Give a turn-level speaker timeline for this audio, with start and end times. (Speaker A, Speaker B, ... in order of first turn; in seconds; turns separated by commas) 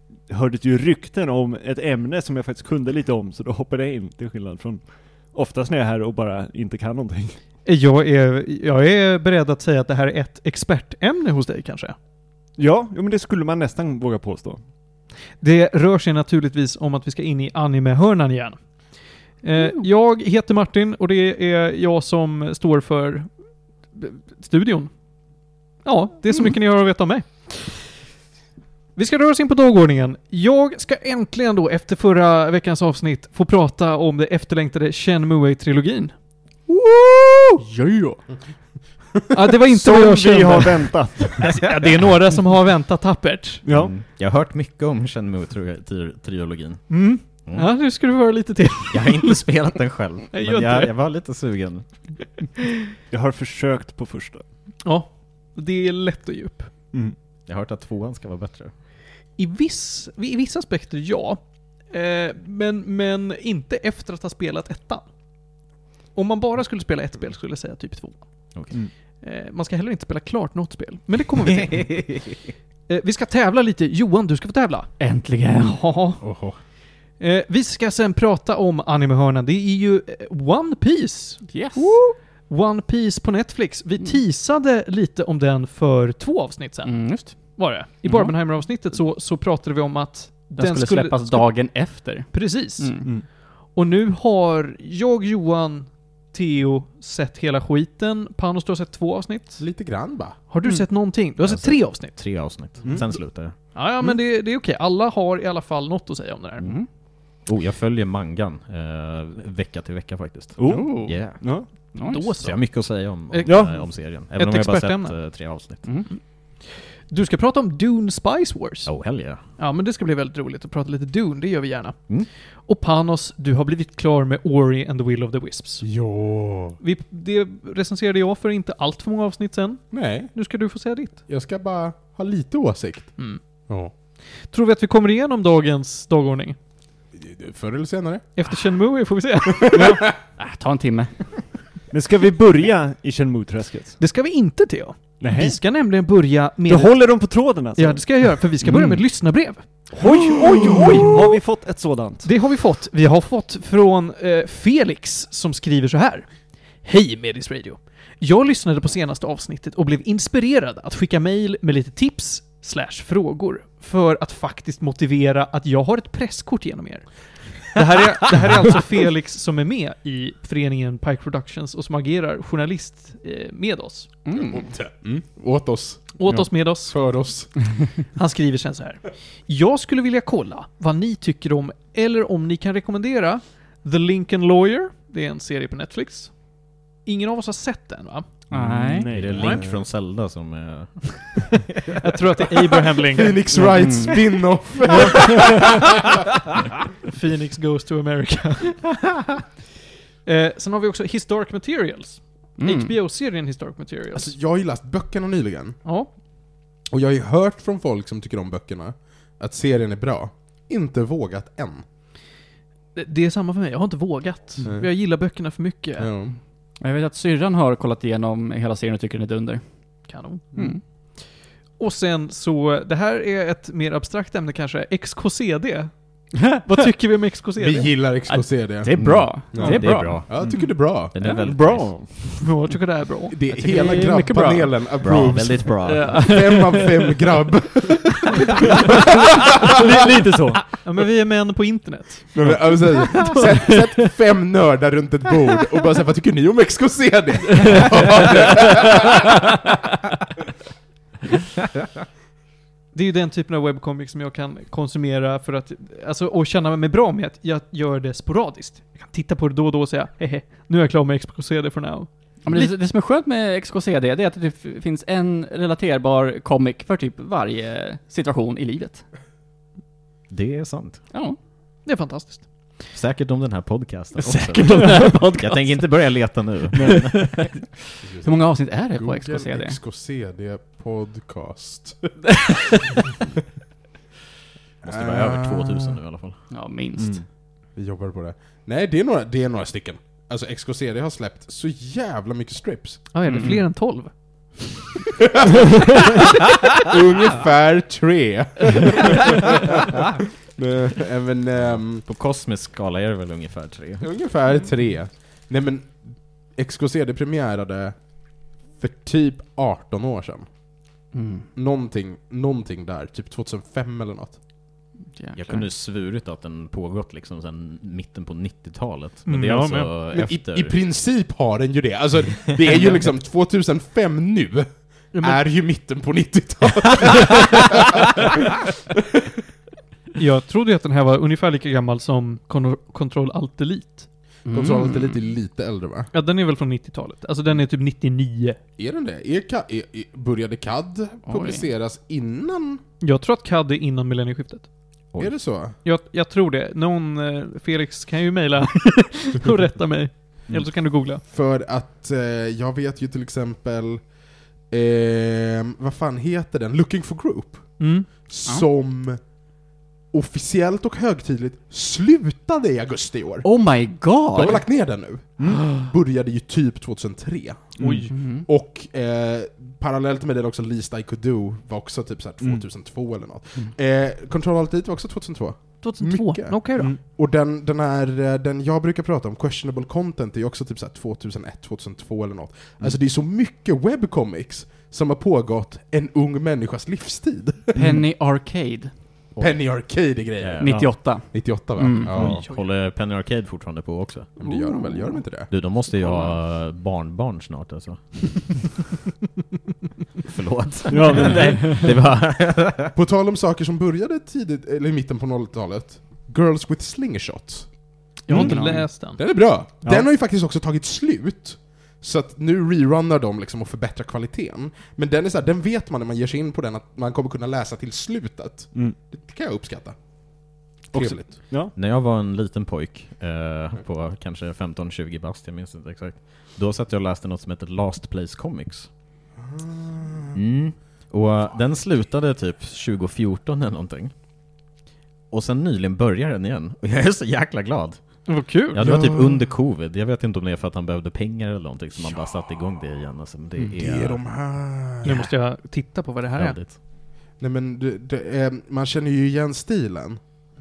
Speaker A: 0.3-7.4, Speaker B: 7.7-11.9, Speaker A: 12.6-14.6, Speaker B: 15.4-18.6, Speaker B: 19.4-23.3, Speaker B: 23.9-24.9, Speaker B: 25.8-27.8, Speaker B: 29.0-36.1, Speaker C: 37.6-38.2, Speaker B: 39.3-43.6, Speaker A: 39.7-41.6, Speaker A: 43.6-43.9, Speaker D: 43.6-47.7, Speaker B: 46.9-49.6, Speaker D: 48.9-51.9, Speaker B: 50.3-50.9, Speaker A: 53.1-54.5, Speaker B: 54.8-56.7, Speaker D: 57.5-58.7, Speaker B: 59.4-65.1, Speaker B: 66.1-68.5, Speaker B: 69.2-72.3, Speaker D: 71.6-72.0, Speaker B: 72.9-74.9, Speaker C: 75.0-75.8, Speaker B: 75.5-76.3, Speaker E: 76.2-76.6, Speaker B: 77.2-91.7, Speaker C: 81.5-82.0, Speaker C: 86.8-88.4, Speaker C: 90.5-93.1, Speaker B: 92.3-93.0, Speaker B: 93.7-99.7, Speaker E: 99.6-100.4, Speaker B: 100.5-102.6, Speaker D: 101.4-103.6, Speaker A: 102.8-103.1, Speaker B: 103.7-106.7, Speaker C: 106.6-106.9, Speaker D: 107.4-111.6, Speaker A: 110.6-111.7, Speaker C: 110.7-111.3, Speaker C: 111.9-112.3, Speaker B: 112.1-115.4, Speaker D: 112.4-115.8, Speaker A: 113.5-113.8, Speaker C: 115.8-116.1, Speaker B: 117.0-119.0, Speaker D: 118.9-119.4, Speaker B: 119.6-125.9, Speaker E: 125.8-126.8, Speaker B: 126.8-131.2, Speaker E: 129.9-130.3, Speaker E: 131.3-133.2, Speaker B: 134.5-136.6, Speaker E: 137.1-138.3, Speaker B: 138.4-140.2, Speaker E: 139.6-139.9, Speaker A: 139.7-140.0, Speaker C: 140.4-141.3, Speaker A: 141.9-144.0, Speaker B: 144.0-151.4, Speaker A: 145.2-145.8, Speaker A: 146.7-149.0, Speaker A: 149.9-152.3, Speaker B: 152.2-156.3, Speaker B: 156.8-174.2, Speaker C: 174.2-174.7, Speaker E: 174.3-176.1, Speaker B: 176.2-177.0, Speaker E: 176.9-177.9, Speaker B: 178.2-186.4, Speaker B: 187.0-188.3, Speaker C: 188.5-189.1, Speaker A: 188.5-189.6, Speaker D: 189.1-191.7, Speaker B: 189.3-189.6, Speaker E: 189.5-189.8, Speaker B: 192.0-193.4, Speaker E: 193.1-196.1, Speaker C: 193.6-194.2, Speaker B: 195.0-195.7, Speaker B: 197.1-199.1, Speaker B: 200.2-204.3, Speaker C: 202.6-202.9, Speaker E: 204.1-205.8, Speaker B: 205.8-206.1, Speaker E: 206.9-211.8, Speaker B: 212.9-216.1, Speaker E: 214.6-214.9, Speaker E: 216.0-216.4, Speaker C: 216.8-219.6, Speaker B: 220.1-220.6, Speaker C: 220.6-220.8, Speaker B: 221.8-225.9, Speaker B: 226.6-228.2, Speaker E: 227.6-231.2, Speaker C: 228.3-230.3, Speaker D: 229.0-232.0, Speaker A: 231.2-232.4, Speaker B: 232.3-233.5, Speaker E: 233.3-238.8, Speaker C: 233.5-237.1, Speaker D: 235.0-236.3, Speaker E: 239.4-239.7, Speaker A: 239.6-240.8, Speaker B: 240.7-242.6, Speaker E: 242.3-249.5, Speaker A: 242.4-242.7, Speaker B: 252.9-262.8, Speaker C: 262.4-269.0, Speaker D: 270.3-271.1, Speaker C: 271.1-271.4, Speaker B: 271.9-272.5, Speaker D: 272.9-277.3, Speaker C: 274.4-275.8, Speaker A: 274.7-275.1, Speaker A: 276.7-277.1, Speaker C: 276.8-277.7, Speaker E: 278.0-282.1, Speaker C: 278.2-279.8, Speaker E: 284.8-286.0, Speaker D: 284.8-286.4, Speaker C: 286.5-287.2, Speaker A: 287.0-287.2, Speaker E: 287.8-293.1, Speaker B: 293.1-294.1, Speaker C: 293.3-293.6, Speaker E: 295.4-300.0, Speaker E: 300.5-302.1, Speaker D: 301.6-304.1, Speaker E: 304.0-310.5, Speaker C: 311.1-311.5, Speaker E: 311.6-314.4, Speaker C: 315.1-315.7, Speaker D: 315.4-320.8, Speaker B: 319.3-319.9, Speaker E: 320.1-328.0, Speaker B: 325.1-325.4, Speaker B: 330.2-334.1, Speaker C: 334.4-335.2, Speaker E: 334.5-336.1, Speaker B: 336.1-338.6, Speaker E: 338.8-342.8, Speaker C: 341.3-341.7, Speaker B: 343.0-344.7, Speaker E: 345.2-345.8, Speaker B: 345.8-351.2, Speaker E: 351.2-354.1, Speaker E: 354.7-359.2, Speaker B: 357.8-358.3, Speaker E: 360.1-363.7, Speaker C: 363.4-364.7, Speaker E: 364.3-387.9, Speaker C: 365.5-365.9, Speaker A: 367.8-368.1, Speaker B: 367.8-368.1, Speaker C: 368.1-368.5, Speaker B: 375.8-377.0, Speaker A: 387.8-388.0, Speaker C: 387.8-388.9, Speaker D: 389.4-390.9, Speaker E: 389.4-392.4, Speaker C: 390.6-392.3, Speaker D: 392.1-394.3, Speaker B: 392.2-392.6, Speaker E: 394.4-395.5, Speaker D: 395.5-398.6, Speaker D: 400.3-402.9, Speaker A: 400.9-401.9, Speaker E: 402.9-407.7, Speaker B: 408.3-409.3, Speaker C: 408.3-408.9, Speaker A: 408.3-408.9, Speaker E: 409.1-421.4, Speaker A: 409.8-410.1, Speaker A: 420.9-421.7, Speaker D: 421.4-428.9, Speaker E: 429.4-430.4, Speaker D: 430.3-434.1, Speaker D: 435.3-444.2, Speaker B: 438.3-438.9, Speaker E: 438.8-439.5, Speaker E: 443.8-445.3, Speaker B: 445.0-446.6, Speaker D: 446.3-446.8, Speaker E: 447.4-450.2